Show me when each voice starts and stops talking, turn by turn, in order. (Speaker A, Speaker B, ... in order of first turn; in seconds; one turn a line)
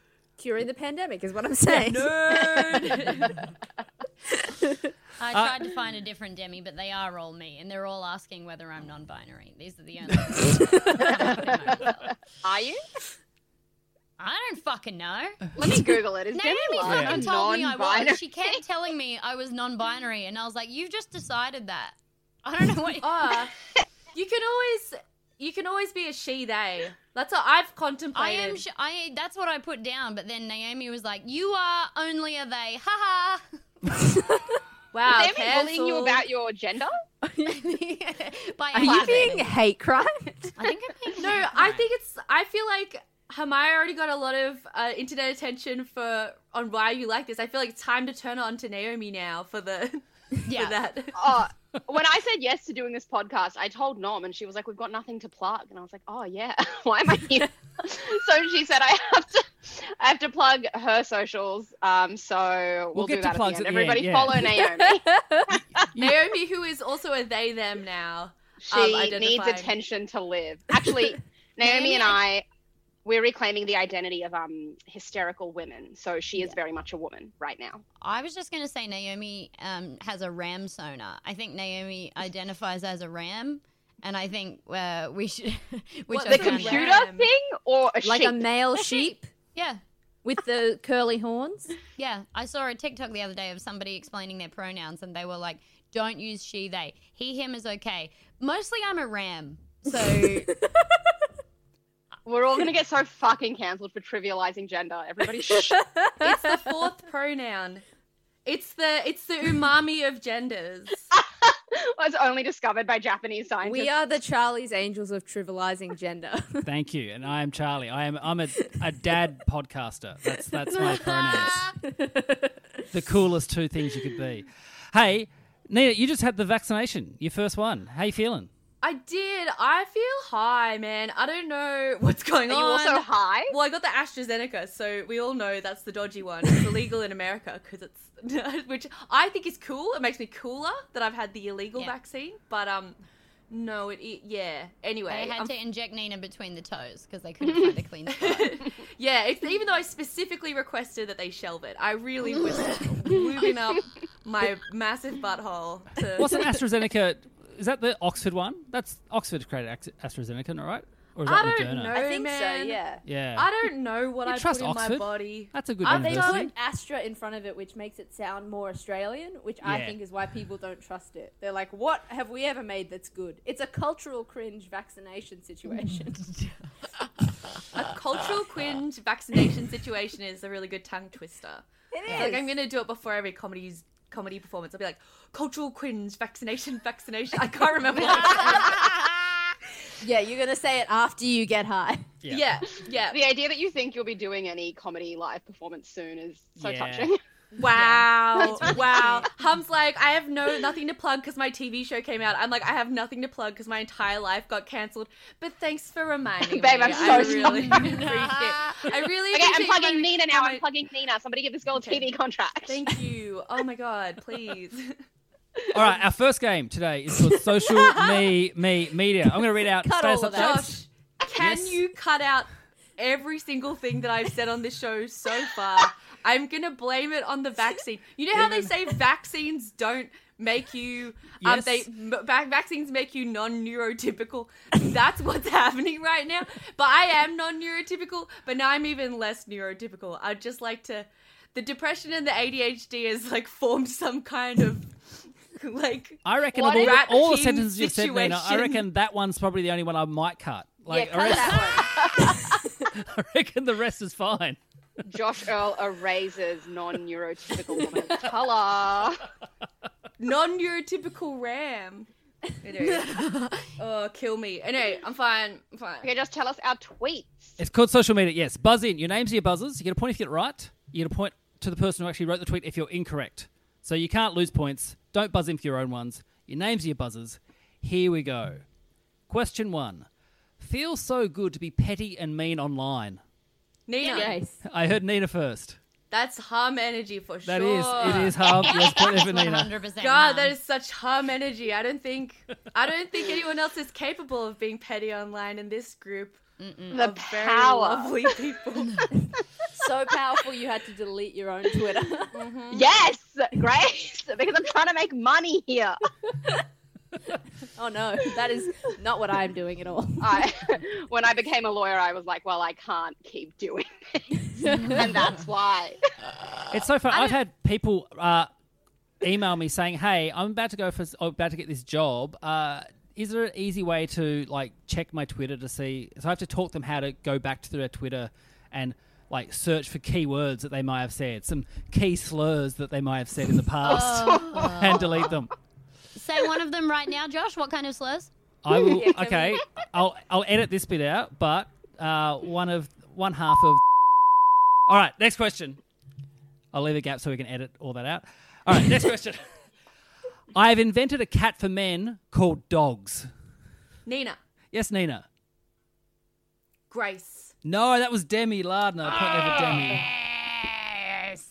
Speaker A: 0.4-3.3
Speaker B: 1.7-3.4
Speaker C: 5.2-12.1
Speaker D: 12.4-12.8
Speaker C: 14.2-15.5
Speaker D: 15.6-18.4
Speaker C: 16.3-23.3
Speaker E: 16.8-17.3
Speaker B: 23.0-23.5
Speaker B: 24.1-28.6
Speaker C: 28.1-33.4
Speaker B: 34.9-36.2
Speaker D: 35.1-36.9
Speaker A: 37.3-37.6
Speaker C: 37.4-39.5
Speaker A: 38.7-40.5
Speaker C: 40.6-41.8
Speaker B: 41.2-51.2
Speaker C: 50.5-50.8
Speaker D: 51.2-65.0
Speaker E: 62.9-64.5
Speaker A: 64.5-65.4
Speaker B: 65.9-69.7
Speaker D: 68.6-72.4
Speaker B: 71.6-72.1
Speaker D: 73.0-77.8
Speaker C: 78.0-86.8
Speaker B: 86.1-87.3
Speaker D: 86.3-88.4
Speaker A: 88.0-89.3
Speaker C: 89.5-89.8
Speaker A: 90.2-91.7
Speaker C: 92.0-100.5
Speaker D: 102.2-105.8
Speaker A: 105.3-106.5
Speaker B: 106.2-107.8
Speaker B: 108.4-111.1
Speaker D: 111.1-113.9
Speaker A: 113.6-116.7
Speaker E: 116.6-121.6
Speaker A: 120.7-121.1
Speaker A: 121.8-122.4
Speaker E: 122.9-128.5
Speaker B: 128.8-142.9
Speaker D: 132.5-133.5
Speaker B: 143.5-145.5
Speaker C: 145.1-148.6
Speaker B: 148.1-156.4
Speaker E: 156.2-161.9
Speaker B: 161.2-162.8
Speaker A: 161.9-163.0
Speaker E: 163.0-163.5
Speaker B: 163.3-166.5
Speaker E: 164.3-166.5
Speaker A: 165.8-176.2
Speaker E: 169.6-170.0
Speaker B: 177.7-188.8
Speaker A: 181.9-182.5
Speaker C: 182.1-182.3
Speaker C: 188.2-188.9
Speaker A: 190.0-192.1
Speaker B: 192.3-193.2
Speaker D: 193.1-197.2
Speaker E: 196.6-197.1
Speaker A: 197.6-199.1
Speaker B: 197.6-210.6
Speaker D: 206.5-207.8
Speaker A: 207.0-207.6
Speaker C: 207.0-208.8
Speaker D: 209.3-212.8
Speaker B: 211.8-212.1
Speaker B: 212.7-214.9
Speaker E: 215.7-220.8
Speaker B: 217.7-218.2
Speaker A: 219.7-220.6
Speaker B: 220.3-244.9
Speaker E: 221.4-221.8
Speaker E: 228.4-228.7
Speaker E: 231.4-231.9
Speaker B: 245.5-248.8
Speaker E: 246.2-252.0
Speaker D: 246.5-246.9
Speaker A: 250.9-252.7
Speaker E: 252.8-254.6
Speaker D: 255.1-259.2
Speaker B: 260.2-262.1
Speaker B: 262.6-266.1
Speaker D: 266.0-267.5
Speaker E: 267.6-278.6
Speaker E: 279.3-280.1
Speaker E: 280.6-283.2
Speaker B: 283.9-284.4
Speaker A: 284.0-284.6
Speaker E: 284.6-285.8
Speaker B: 286.1-288.5
Speaker E: 287.4-289.7
Speaker C: 288.6-290.5
Speaker B: 290.0-296.4
Speaker C: 296.6-297.0
Speaker D: 296.9-298.1
Speaker B: 296.9-299.0
Speaker A: 299.7-302.3
Speaker B: 302.3-302.9
Speaker D: 302.7-306.0
Speaker A: 307.8-310.5
Speaker D: 310.2-314.2
Speaker A: 314.6-315.2
Speaker D: 314.9-315.9
Speaker E: 316.7-318.5
Speaker C: 317.1-317.4
Speaker E: 319.2-335.5
Speaker C: 333.8-335.3
Speaker C: 336.1-338.3
Speaker E: 338.6-343.8
Speaker A: 338.9-339.5
Speaker E: 344.9-345.8
Speaker E: 346.7-349.4
Speaker E: 350.5-353.3
Speaker B: 354.0-354.4
Speaker E: 354.7-355.2
Speaker B: 356.9-357.5
Speaker E: 357.6-360.0
Speaker C: 359.4-361.4